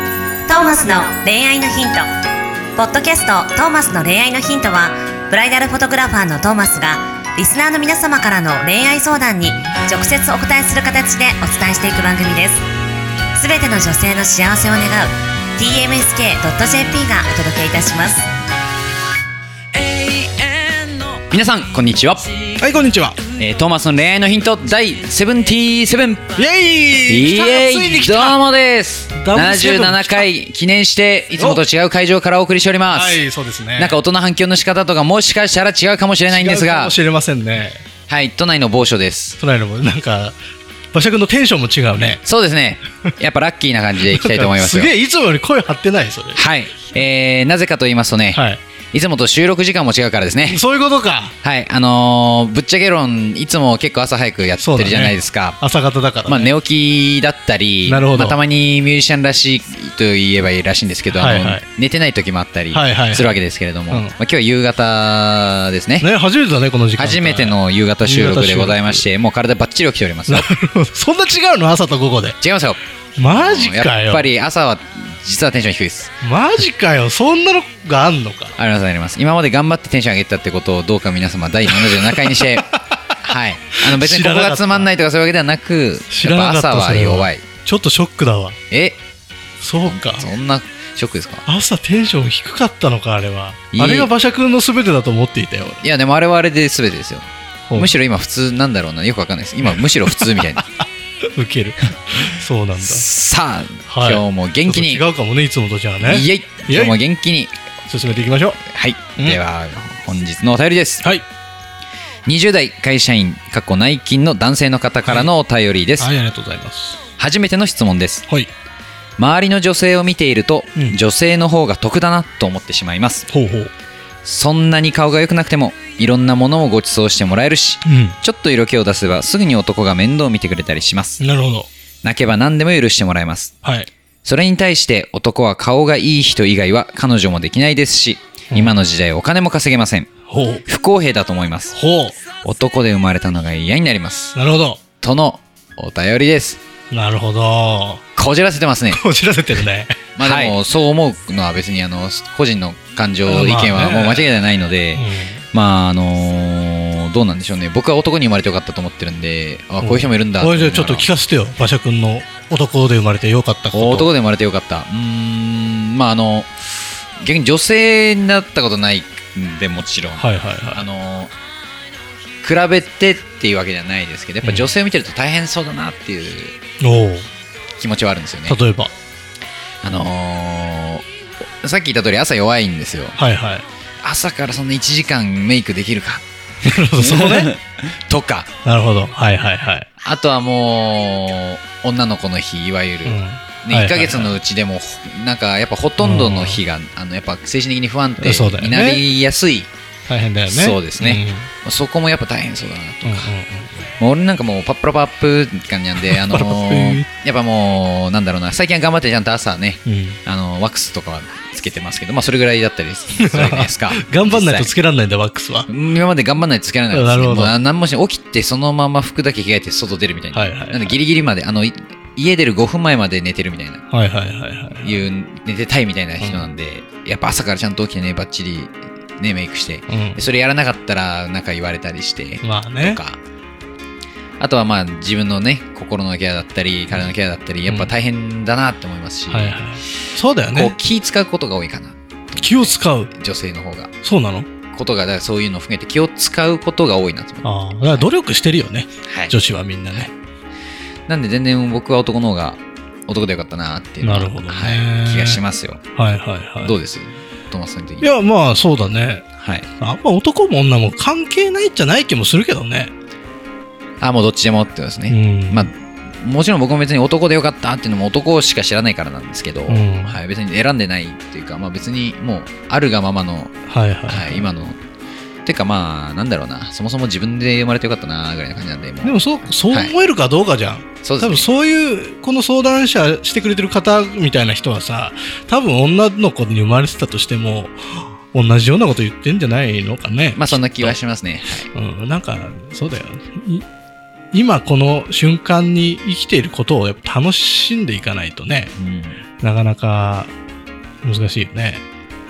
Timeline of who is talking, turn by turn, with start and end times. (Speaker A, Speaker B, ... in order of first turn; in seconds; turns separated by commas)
Speaker A: 0.5-2.0, Speaker A: 2.8-12.6, Speaker A: 13.3-18.3, Speaker B: 19.7-22.3, Speaker C: 22.6-23.2, Speaker B: 23.3-26.4, Speaker C: 26.4-28.4, Speaker B: 27.1-33.2, Speaker C: 29.1-30.3, Speaker C: 31.4-31.6, Speaker C: 32.9-34.0, Speaker B: 33.8-36.9, Speaker C: 36.3-37.8, Speaker B: 38.1-39.4, Speaker C: 39.4-40.4, Speaker C: 40.9-42.2, Speaker B: 42.2-44.9, Speaker C: 44.1-46.4, Speaker B: 46.3-50.6, Speaker C: 48.3-48.6, Speaker C: 50.5-51.3, Speaker B: 51.4-55.6, Speaker C: 54.6-56.5, Speaker B: 56.2-66.1, Speaker C: 57.9-58.4, Speaker C: 61.1-61.6, Speaker C: 62.7-63.4, Speaker C: 63.9-64.2, Speaker C: 66.0-69.0, Speaker B: 67.0-70.5, Speaker C: 70.3-72.4, Speaker B: 72.4-76.1, Speaker C: 73.2-74.2, Speaker C: 76.2-78.5, Speaker B: 78.6-87.4, Speaker C: 81.7-83.2, Speaker C: 83.8-84.9, Speaker C: 86.1-88.6, Speaker B: 88.7-89.0, Speaker C: 89.6-90.3, Speaker B: 89.8-91.4, Speaker C: 91.5-95.8, Speaker B: 93.7-94.1, Speaker B: 95.8-100.6, Speaker C: 97.7-97.9, Speaker C: 100.0-103.0, Speaker B: 102.8-105.0, Speaker C: 103.9-107.0, Speaker B: 106.0-107.5, Speaker C: 107.9-108.6, Speaker B: 108.7-111.1, Speaker B: 112.2-116.1, Speaker C: 116.0-117.0, Speaker B: 117.2-118.3, Speaker B: 119.2-123.3, Speaker C: 123.3-123.7, Speaker B: 124.2-131.2, Speaker C: 127.8-128.2, Speaker C: 131.2-131.7, Speaker B: 132.0-133.5, Speaker C: 133.6-133.9, Speaker B: 134.2-140.1, Speaker C: 140.3-140.6, Speaker B: 140.6-141.8, Speaker C: 141.7-142.2, Speaker B: 142.4-144.3, Speaker C: 144.3-144.8, Speaker B: 145.0-146.6, Speaker C: 146.9-148.0, Speaker B: 148.2-149.0, Speaker C: 148.9-150.5, Speaker B: 150.2-161.1, Speaker C: 153.2-154.3, Speaker C: 154.9-155.4, Speaker C: 159.8-164.1, Speaker B: 163.7-171.3, Speaker C: 170.2-170.8, Speaker B: 172.4-176.6, Speaker C: 174.4-174.7, Speaker C: 176.8-177.3, Speaker B: 177.8-178.6, Speaker C: 178.5-178.9, Speaker B: 179.8-181.0, Speaker B: 181.6-183.2, Speaker C: 183.2-183.7, Speaker B: 184.0-186.2, Speaker C: 186.6-187.5, Speaker B: 186.9-188.5, Speaker C: 188.6-189.9, Speaker B: 190.0-199.7, Speaker C: 193.0-194.3, Speaker C: 196.0-196.6, Speaker C: 198.2-199.0, Speaker C: 200.1-201.5, Speaker B: 200.5-203.3, Speaker C: 203.0-203.9, Speaker B: 204.0-214.7, Speaker C: 206.0-207.1, Speaker C: 209.8-210.2, Speaker C: 213.2-215.7, Speaker B: 215.7-223.8, Speaker C: 216.9-217.5, Speaker C: 220.3-221.0, Speaker C: 223.9-224.9, Speaker B: 224.8-233.2, Speaker C: 226.2-226.5, Speaker C: 229.9-230.2, Speaker C: 232.4-233.0, Speaker B: 234.4-239.7, Speaker C: 239.3-240.7, Speaker B: 240.5-243.9, Speaker C: 242.4-243.1, Speaker C: 244.0-244.5, Speaker B: 244.7-248.1, Speaker C: 247.4-250.1, Speaker B: 249.1-249.3, Speaker B: 251.1-258.1, Speaker C: 254.0-255.4, Speaker C: 255.9-256.7, Speaker C: 258.0-259.2, Speaker B: 259.4-259.7, Speaker C: 259.8-262.9, Speaker B: 264.0-273.5, Speaker C: 265.1-265.7, Speaker C: 269.7-270.2, Speaker C: 273.7-274.4, Speaker B: 274.1-274.8, Speaker B: 275.4-279.9, Speaker C: 279.0-290.9, Speaker B: 281.0-281.5, Speaker B: 290.3-291.7, Speaker C: 291.7-293.6, Speaker C: 294.3-298.7, Speaker B: 298.7-299.2, Speaker C: 299.4-300.3, Speaker C: 301.0-301.8